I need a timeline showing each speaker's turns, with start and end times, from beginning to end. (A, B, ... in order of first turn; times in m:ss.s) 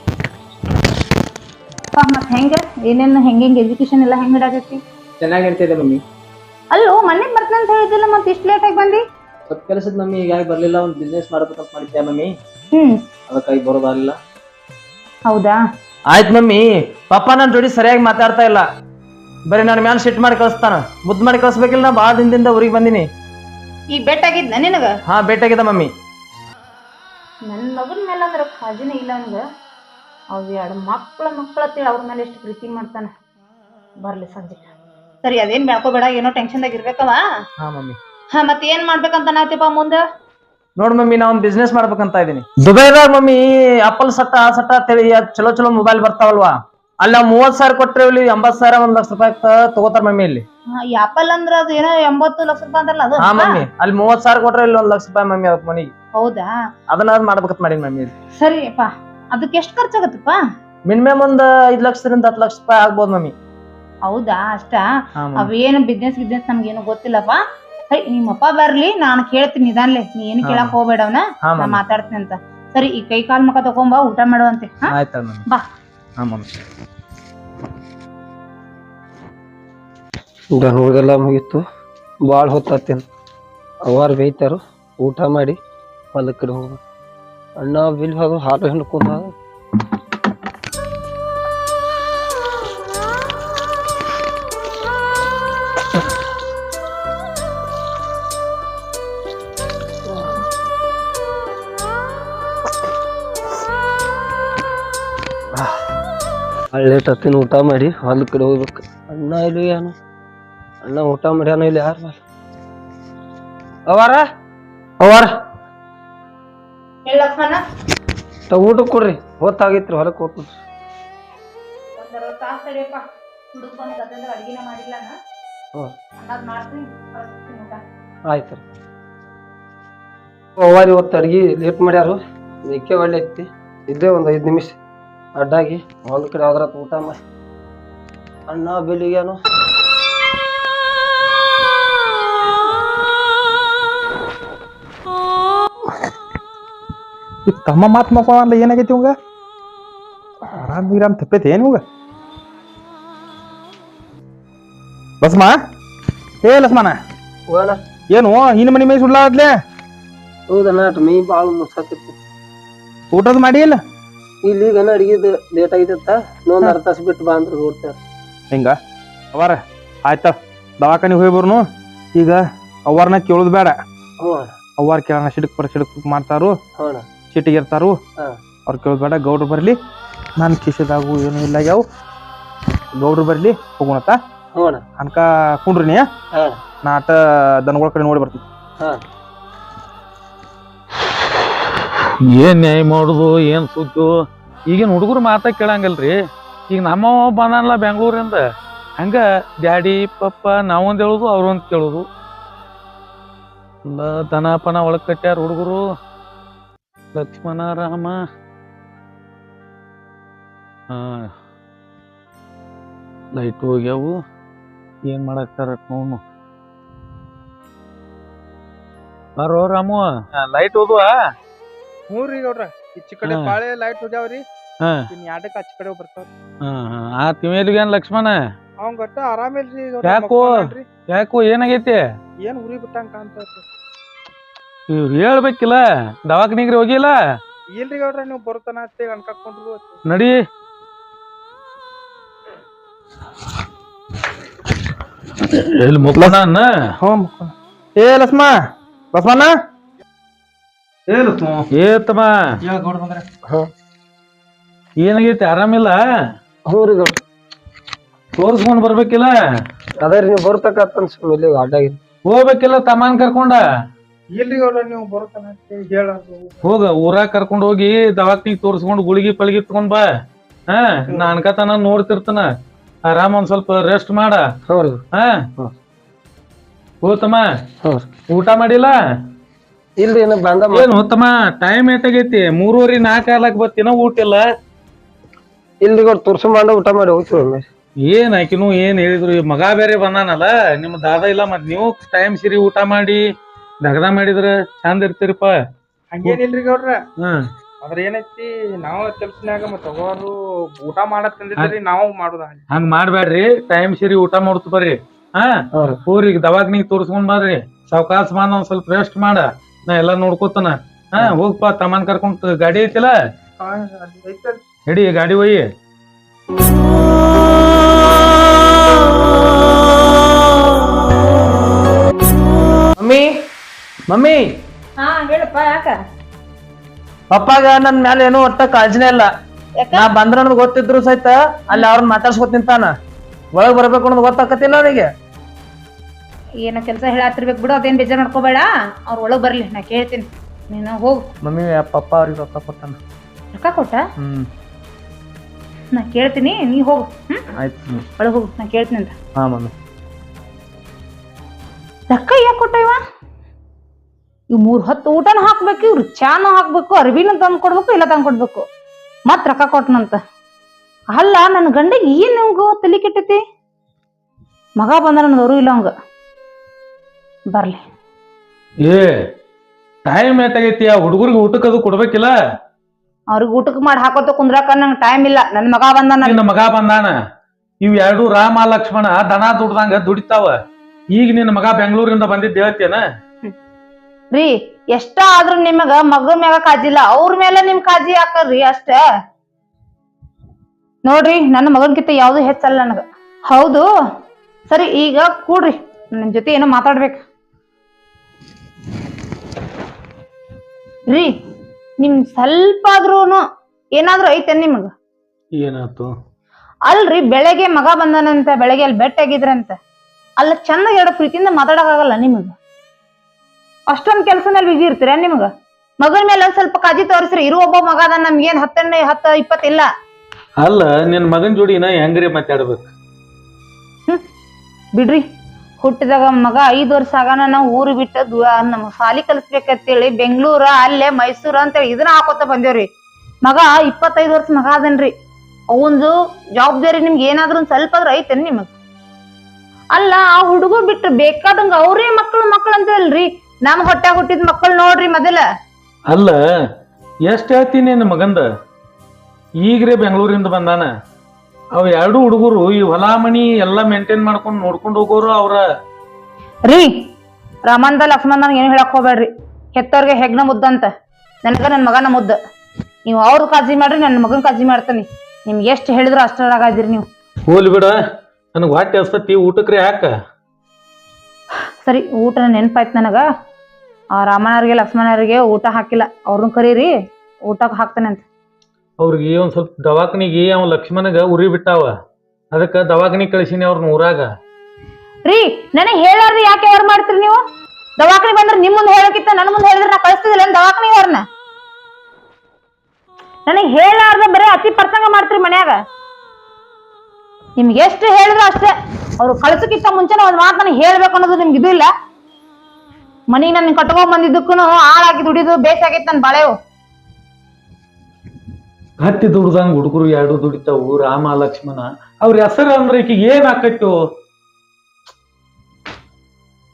0:01.9-0:04.8 A
0:05.2-0:06.0 B
0:06.7-0:09.0 A
0:09.5-0:12.4 B
0:12.7-0:13.0 A
0:13.3-0:14.2 B
0:15.3-0:15.6 A
0:16.1-0:18.6 B
0:19.5-0:23.1 B
0:23.9-0:24.9 A
0:25.1-0:25.9 B
0:27.5-0:29.4 A
0:30.3-0:33.1 A
0:34.0-0:34.7 A
0:35.2-0:37.2 A
0:37.6-0:38.0 B
0:38.3-0:40.0 A
0:40.8-0:50.4 B
0:50.8-0:53.6 A
0:53.2-0:55.9 B
0:56.2-0:56.5 A
0:56.9-0:58.1 B
0:58.4-1:00.4 A
1:00.9-1:03.3 B
1:04.1-1:04.8 A
1:05.2-1:05.5 B
1:05.4-1:14.9 A
1:10.4-1:10.8 B
1:11.4-1:11.8 B
1:14.9-1:15.5 B
1:16.2-1:16.5 B
1:20.5-1:21.6 C
1:22.2-1:23.0 C
1:23.8-1:25.6 C
1:26.1-1:26.8 C
1:27.6-1:29.4 C
1:46.7-1:50.0 C
1:50.8-1:52.2 C
1:53.9-1:54.2 C
1:55.0-1:55.3 C
1:57.0-1:57.6 A
1:58.5-2:00.6 C
2:02.0-2:05.2 A
2:06.2-2:07.8 A
2:08.3-2:08.6 C
2:10.6-2:14.8 C
2:15.4-2:17.2 C
2:18.5-2:19.4 C
2:27.5-2:29.2 D
2:30.5-2:31.8 D
2:35.2-2:35.6 D
2:36.4-2:37.0 D
2:37.5-2:37.8 C
2:38.1-2:39.6 D
2:40.5-2:42.2 C
2:43.1-2:43.8 D
2:44.4-2:48.0 C
2:48.5-2:48.8 D
2:49.3-2:53.8 D
2:54.2-2:54.5 C
2:54.8-2:56.6 D
2:56.8-2:57.1 C
2:57.3-2:58.0 D
2:58.6-2:59.8 D
3:00.4-3:01.8 D
3:03.0-3:04.2 D
3:04.5-3:04.8 C
3:05.0-3:06.1 D
3:06.3-3:06.6 C
3:06.8-3:08.4 D
3:12.2-3:14.1 E
3:14.7-3:16.2 E
3:16.7-3:18.4 E
3:19.0-3:22.0 E
3:23.9-3:25.8 E
3:27.1-3:28.1 E
3:30.9-3:31.3 E
3:33.4-3:34.2 E
3:35.1-3:36.2 E
3:39.4-3:41.1 E
3:42.1-3:44.4 D
3:43.2-3:43.6 E
3:45.1-3:46.3 D
3:46.6-3:48.4 E
3:48.8-3:50.9 D
3:50.0-3:52.0 E
3:52.4-3:53.6 D
3:54.9-3:57.1 E
3:57.7-4:00.0 D
4:00.1-4:00.4 E
4:05.5-4:06.7 E
4:07.0-4:09.6 D
4:11.1-4:11.7 D
4:11.8-4:12.3 E
4:12.6-4:13.2 D
4:15.0-4:16.0 E
4:16.7-4:17.2 C
4:18.4-4:19.3 E
4:20.0-4:22.0 C
4:22.2-4:23.6 E
4:24.3-4:26.5 D
4:26.6-4:30.0 E
4:30.7-4:32.5 E
4:31.1-4:31.4 D
4:33.1-4:34.4 E
4:34.7-4:35.0 C
4:35.1-4:35.5 E
4:37.0-4:37.4 E
4:37.8-4:38.1 C
4:38.3-4:39.0 E
4:40.0-4:40.9 C
4:40.7-4:44.4 E
4:45.8-4:47.6 C
4:48.0-4:53.2 E
4:53.8-4:55.5 E
4:56.1-4:57.0 D
4:57.8-5:02.6 D
5:02.7-5:05.5 E
5:05.8-5:06.0 C
5:06.1-5:13.1 E
5:13.6-5:14.6 D
5:14.9-5:15.6 E
5:23.0-5:23.3 B
5:24.1-5:24.4 B
5:25.0-5:26.0 A
5:27.3-5:29.3 B
5:29.8-5:30.1 A
5:29.9-5:32.9 B
5:33.5-5:35.1 B
5:36.6-5:41.2 A
5:41.4-5:43.0 B
5:43.5-5:44.0 A
5:44.2-5:44.5 B
5:45.9-5:47.4 A
5:47.6-5:48.0 B
5:48.2-5:49.1 A
5:49.4-5:49.7 B
5:52.1-5:53.0 A
5:54.5-5:58.6 A
5:59.3-6:00.2 A
6:01.1-6:03.4 A
6:04.8-6:05.9 A
6:07.5-6:07.8 A
6:08.8-6:09.1 E
6:10.1-6:12.3 E
6:13.3-6:16.4 A
6:16.2-6:17.1 E
6:17.8-6:20.5 E
6:21.1-6:23.0 E
6:24.3-6:29.0 A
6:31.0-6:33.8 A
6:34.7-6:37.2 A
6:42.0-6:43.4 A
6:44.0-6:44.9 A
6:45.5-6:46.1 E
6:46.9-6:49.8 A
6:50.4-6:52.5 A
6:53.9-6:55.5 A
6:56.0-6:59.9 A
7:00.6-7:02.9 E
7:05.0-7:05.2 A
7:05.8-7:12.9 A
7:13.4-7:15.1 A
7:15.7-7:18.7 A
7:19.9-7:25.4 A
7:26.1-7:26.4 E
7:27.3-7:28.4 E
7:29.6-7:30.9 E
7:31.8-7:35.6 E
7:36.6-7:36.9 A
7:37.6-7:40.9 A
7:41.4-7:42.4 A
7:43.1-7:47.0 A
7:47.5-7:48.0 E
7:48.5-7:50.1 E
7:51.8-7:53.2 A
7:54.2-7:58.2 A
7:59.0-8:01.9 E
8:02.5-8:04.2 E
8:05.2-8:07.4 A
8:08.0-8:11.2 A
8:13.5-8:15.8 A
8:17.6-8:21.9 A
8:23.3-8:26.5 A
8:29.0-8:34.0 E